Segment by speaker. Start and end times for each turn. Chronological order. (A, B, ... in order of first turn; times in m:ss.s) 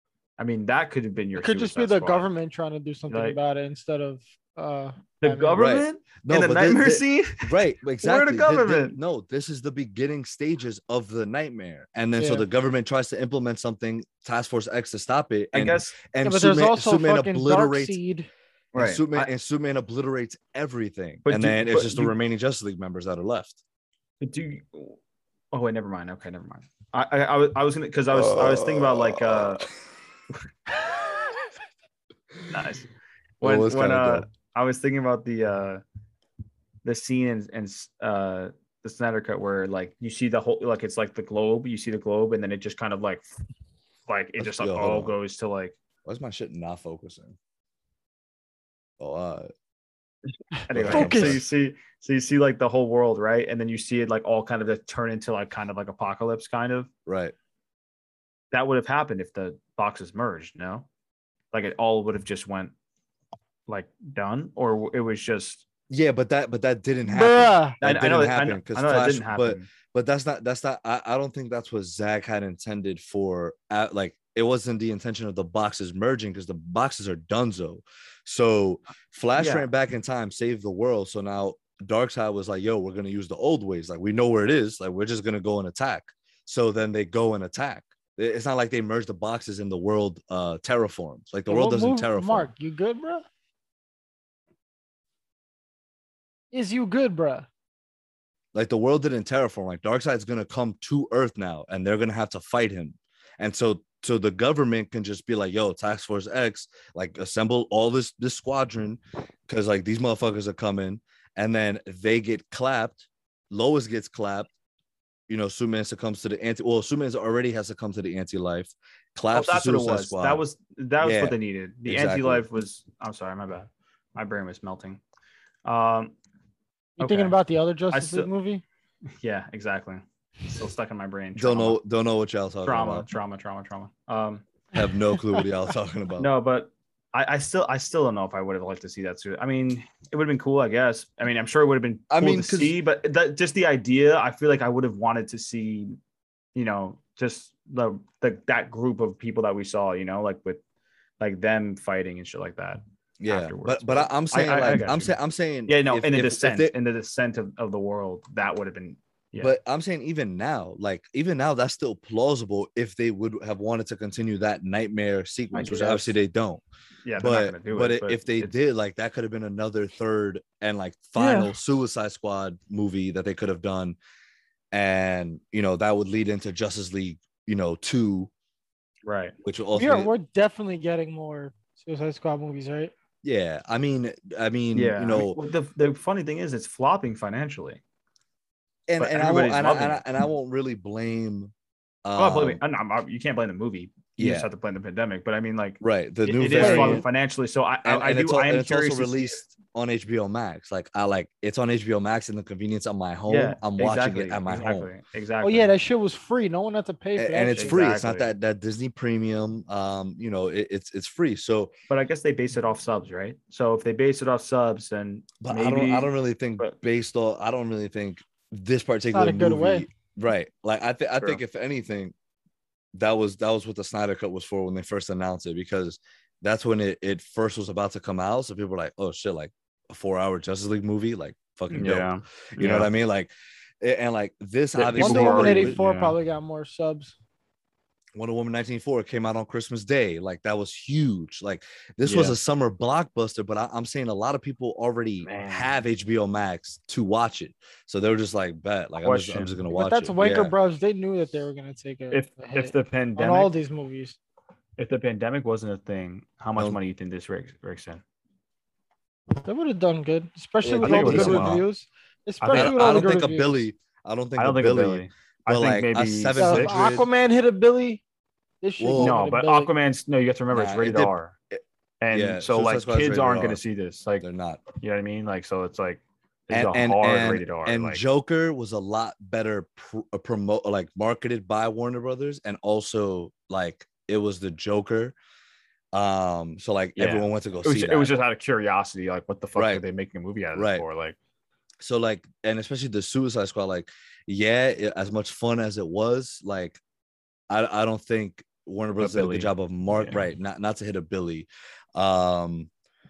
0:00.4-0:02.3 A
0:01.4-0:05.6 B
0:03.1-0:03.4 A
0:05.2-0:09.0 A
0:05.6-0:18.0 C
0:12.2-0:12.4 B
0:15.5-0:16.0 A
0:16.2-0:18.3 B
0:18.7-0:19.3 A
0:18.7-0:23.6 C
0:21.3-0:22.1 A
0:24.2-0:25.0 A
0:25.5-0:29.7 A
0:28.1-0:29.7 C
0:30.8-0:31.3 C
0:32.5-0:32.9 A
0:33.4-0:35.8 A
0:33.4-0:34.3 C
0:36.8-0:43.3 A
0:44.1-0:45.8 A
0:44.4-0:45.1 C
0:46.0-0:47.4 C
0:49.0-0:49.5 C
0:50.6-0:56.9 A
0:50.7-0:51.4 C
0:50.9-0:51.4 B
0:57.0-0:57.3 C
0:58.5-1:00.9 A
1:01.5-1:02.7 A
1:03.7-1:05.6 A
1:05.9-1:32.5 C
1:07.1-1:07.8 B
1:07.8-1:09.7 A
1:19.4-1:19.7 A
1:31.5-1:33.3 B
1:36.5-1:37.5 B
1:38.5-1:54.5 C
1:55.3-2:00.4 C
1:59.3-2:05.0 A
2:01.0-2:02.4 C
2:05.6-2:06.1 A
2:07.0-2:07.4 A
2:07.0-2:08.6 B
2:07.9-2:08.3 A
2:09.1-2:11.8 A
2:11.4-2:13.1 C
2:12.6-2:14.4 A
2:14.7-2:16.3 C
2:16.2-2:26.0 A
2:22.1-2:22.8 C
2:26.6-2:30.6 A
2:31.2-2:35.1 A
2:33.2-2:36.7 C
2:35.7-2:39.6 A
2:39.4-2:46.6 C
2:45.5-2:46.1 A
2:47.0-2:48.6 A
2:47.2-2:54.0 C
2:51.2-2:51.5 B
2:54.7-2:58.3 C
2:59.0-2:59.3 A
2:59.4-3:00.1 C
2:59.7-3:02.9 B
3:03.2-3:05.4 C
3:04.7-3:07.8 A
3:08.9-3:11.5 C
3:09.0-3:10.0 A
3:12.0-3:12.6 C
3:12.2-3:19.4 A
3:14.2-3:14.5 C
3:15.8-3:17.0 C
3:16.6-3:17.0 B
3:17.8-3:24.9 C
3:23.3-3:25.7 A
3:25.4-3:27.8 B
3:27.2-3:31.7 C
3:27.5-3:28.3 A
3:31.9-3:36.8 A
3:35.4-3:42.1 C
3:39.1-3:39.9 B
3:42.9-3:55.8 C
3:51.7-3:52.9 A
3:54.7-3:56.1 A
3:55.0-3:57.1 B
3:58.2-4:10.5 C
4:02.0-4:02.4 A
4:05.2-4:05.7 A
4:09.0-4:09.6 A
4:09.7-4:14.2 B
4:12.1-4:13.5 A
4:14.8-4:18.0 A
4:19.4-4:23.7 B
4:20.6-4:21.6 C
4:20.8-4:21.6 A
4:22.4-4:23.0 A
4:22.5-4:27.1 C
4:24.4-4:26.9 A
4:26.3-4:28.0 B
4:28.6-4:29.7 B
4:28.8-4:29.2 C
4:29.0-4:31.3 A
4:30.5-4:33.6 C
4:32.0-4:38.0 A
4:34.2-4:34.6 C
4:36.5-4:45.1 C
4:45.9-4:48.1 C
4:47.0-4:51.2 A
4:49.6-4:49.8 C
4:50.6-4:50.8 C
4:51.8-4:56.8 C
4:57.5-5:02.7 C
4:59.0-5:00.3 A